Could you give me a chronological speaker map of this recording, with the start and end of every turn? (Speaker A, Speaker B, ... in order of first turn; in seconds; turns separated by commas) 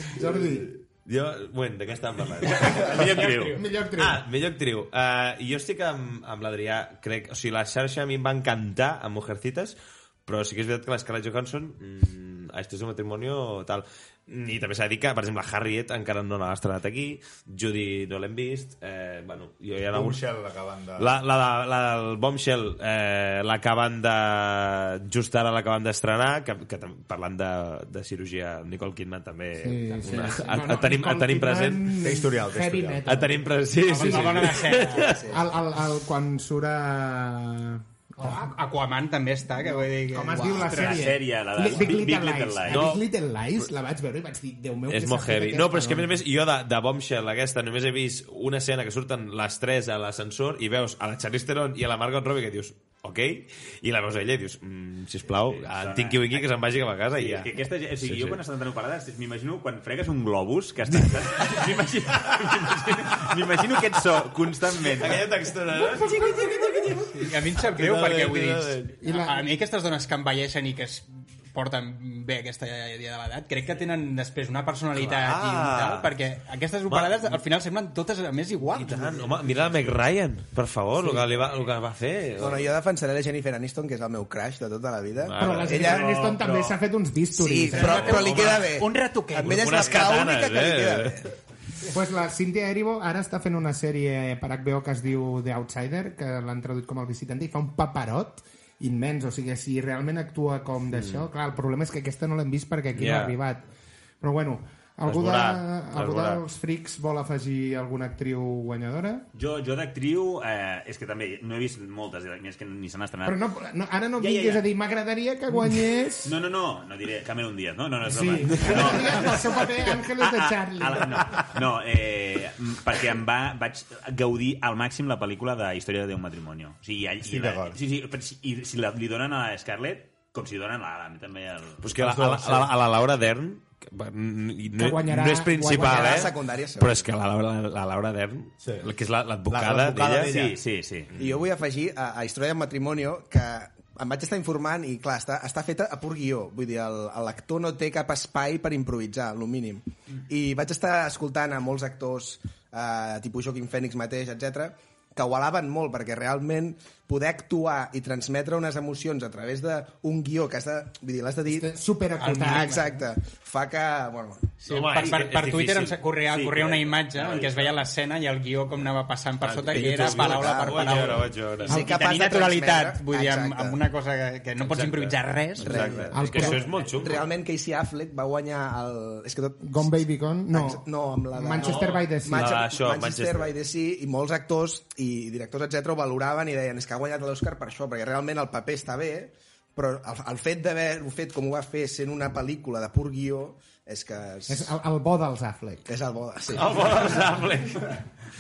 Speaker A: 0.1-0.7, Speaker B: 1.1-20.2, Speaker C: 2.6-3.6, Speaker D: 3.0-3.4, Speaker A: 3.5-4.2, Speaker E: 19.9-21.1, Speaker B: 21.0-31.9, Speaker A: 29.6-34.5, Speaker E: 32.0-33.1, Speaker B: 33.1-35.3, Speaker C: 33.8-35.2, Speaker F: 35.0-35.5, Speaker A: 35.3-38.5, Speaker C: 38.2-41.1, Speaker A: 39.5-46.1, Speaker D: 40.5-43.0, Speaker B: 42.7-43.0, Speaker B: 44.9-57.5, Speaker D: 55.5-56.5, Speaker D: 57.1-65.3, Speaker B: 58.0-58.4, Speaker B: 64.8-68.9, Speaker C: 66.0-66.4, Speaker C: 67.0-79.3, Speaker A: 69.0-69.5, Speaker B: 75.0-76.1, Speaker B: 76.9-77.4, Speaker B: 78.8-82.7, Speaker F: 82.4-86.1, Speaker B: 85.2-86.3, Speaker A: 85.4-88.4, Speaker D: 86.0-86.7, Speaker F: 87.3-91.3, Speaker B: 87.7-88.7, Speaker C: 87.8-90.1, Speaker B: 89.4-91.2, Speaker A: 91.9-103.6, Speaker B: 100.9-101.3, Speaker B: 102.9-103.4, Speaker A: 104.2-109.3, Speaker B: 105.0-106.4, Speaker D: 109.3-113.4, Speaker A: 113.2-116.4, Speaker D: 114.2-114.7, Speaker D: 115.8-131.9, Speaker A: 118.0-121.5, Speaker B: 118.6-119.0, Speaker E: 127.2-127.8, Speaker B: 131.8-140.4, Speaker A: 134.7-136.3, Speaker F: 135.7-137.0, Speaker E: 139.5-140.6, Speaker D: 140.2-141.1, Speaker F: 141.2-161.7, Speaker A: 161.5-162.9, Speaker C: 162.2-163.0, Speaker F: 162.4-164.5, Speaker C: 164.6-176.1, Speaker B: 164.7-166.0, Speaker D: 166.3-166.9, Speaker B: 167.1-167.8, Speaker B: 169.4-171.8, Speaker F: 169.7-173.8, Speaker B: 174.6-177.3, Speaker F: 175.6-194.7, Speaker A: 176.1-176.7, Speaker A: 179.6-182.6, Speaker B: 181.6-183.6, Speaker A: 194.5-195.9, Speaker F: 195.9-197.2, Speaker B: 196.5-198.0